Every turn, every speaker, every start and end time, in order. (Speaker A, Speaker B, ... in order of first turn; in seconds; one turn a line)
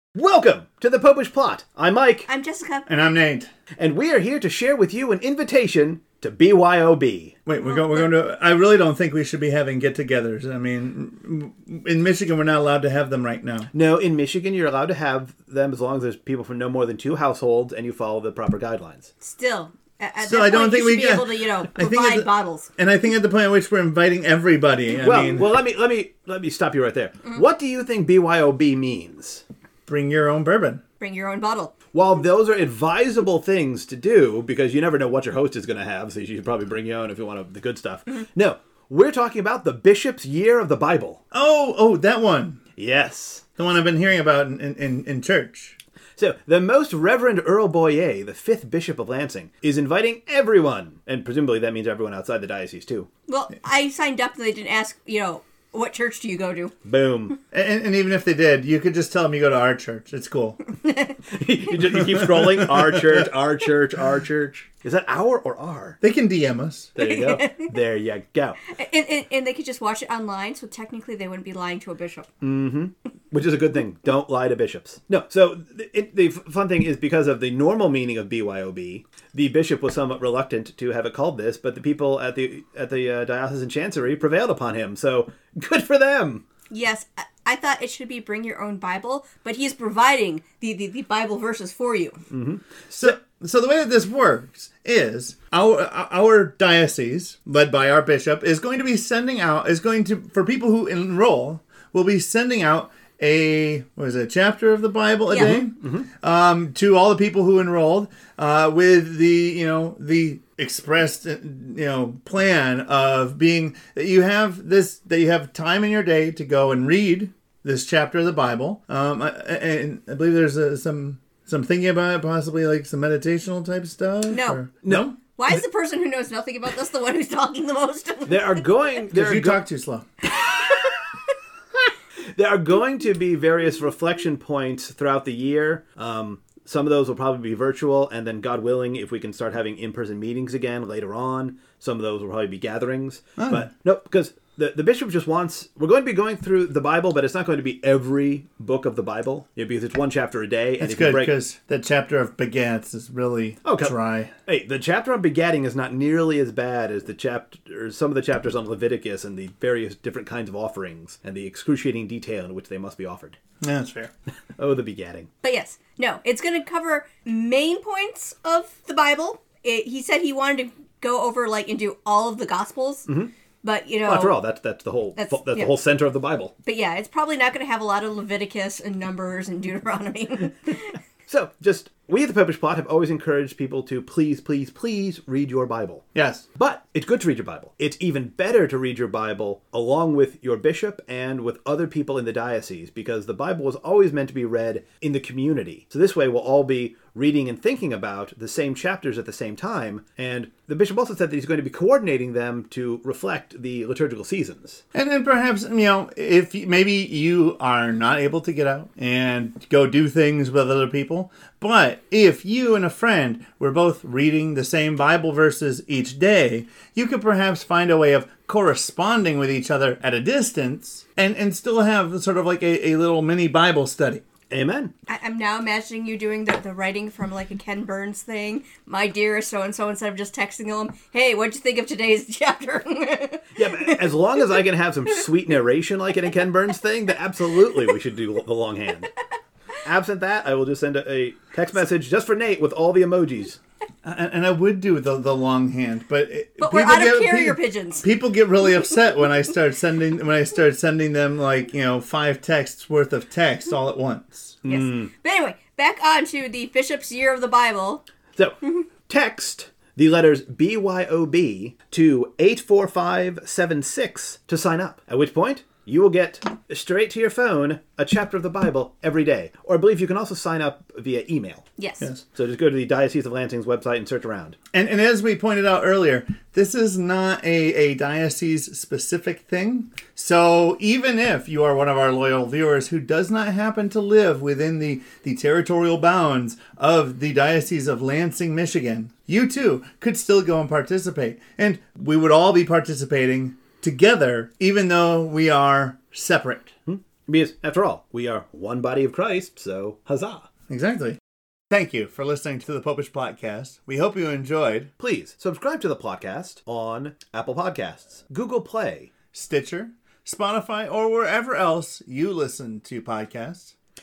Speaker A: 0.1-2.3
Speaker B: 2.3-2.9
Speaker C: 2.9-3.5
Speaker A: 3.8-7.3
Speaker C: 7.5-13.7
Speaker B: 7.6-8.1
Speaker A: 13.7-19.1
Speaker B: 19.2-22.7
Speaker C: 20.2-25.5
Speaker A: 25.0-29.4
Speaker C: 29.9-30.8
Speaker B: 31.0-31.7
Speaker A: 31.9-41.2
Speaker C: 41.3-42.6
Speaker A: 42.8-43.4
Speaker C: 43.6-45.8
Speaker A: 46.2-53.1
Speaker B: 53.3-56.7
Speaker A: 56.8-57.4
Speaker C: 57.5-60.6
Speaker A: 61.2-66.0
Speaker C: 62.0-63.1
Speaker C: 66.0-66.9
Speaker A: 66.9-68.6
Speaker B: 67.0-67.7
Speaker B: 68.7-72.3
Speaker A: 72.4-86.4
Speaker B: 86.7-92.2
Speaker A: 92.3-92.7
Speaker C: 92.9-125.2
Speaker B: 105.3-105.6
Speaker A: 105.4-106.1
Speaker B: 124.3-124.6
Speaker A: 124.8-125.1
Speaker B: 125.3-128.7
Speaker A: 128.2-129.6
Speaker C: 129.1-130.0
Speaker B: 130.5-130.8
Speaker A: 132.3-151.3
Speaker C: 143.4-143.7
Speaker C: 150.8-154.3
Speaker A: 153.6-163.4
Speaker C: 163.6-164.1
Speaker A: 164.6-165.3
Speaker B: 165.4-173.1
Speaker A: 173.1-173.3
Speaker B: 173.6-174.4
Speaker A: 174.0-176.5
Speaker B: 175.2-175.7
Speaker B: 176.6-181.0
Speaker A: 181.3-204.8
Speaker C: 186.1-186.4
Speaker C: 204.9-224.2
Speaker A: 224.5-224.9
Speaker B: 225.1-234.5
Speaker A: 233.5-239.1
Speaker A: 239.8-243.6
Speaker C: 244.0-254.6
Speaker B: 246.6-248.0
Speaker A: 254.6-255.1
Speaker B: 254.6-258.0
Speaker A: 258.3-271.7
Speaker B: 271.8-272.1
Speaker A: 272.2-274.6
Speaker C: 274.7-296.7
Speaker A: 296.9-300.5
Speaker C: 300.7-301.2
Speaker C: 301.7-304.9
Speaker A: 305.0-309.1
Speaker C: 309.3-313.7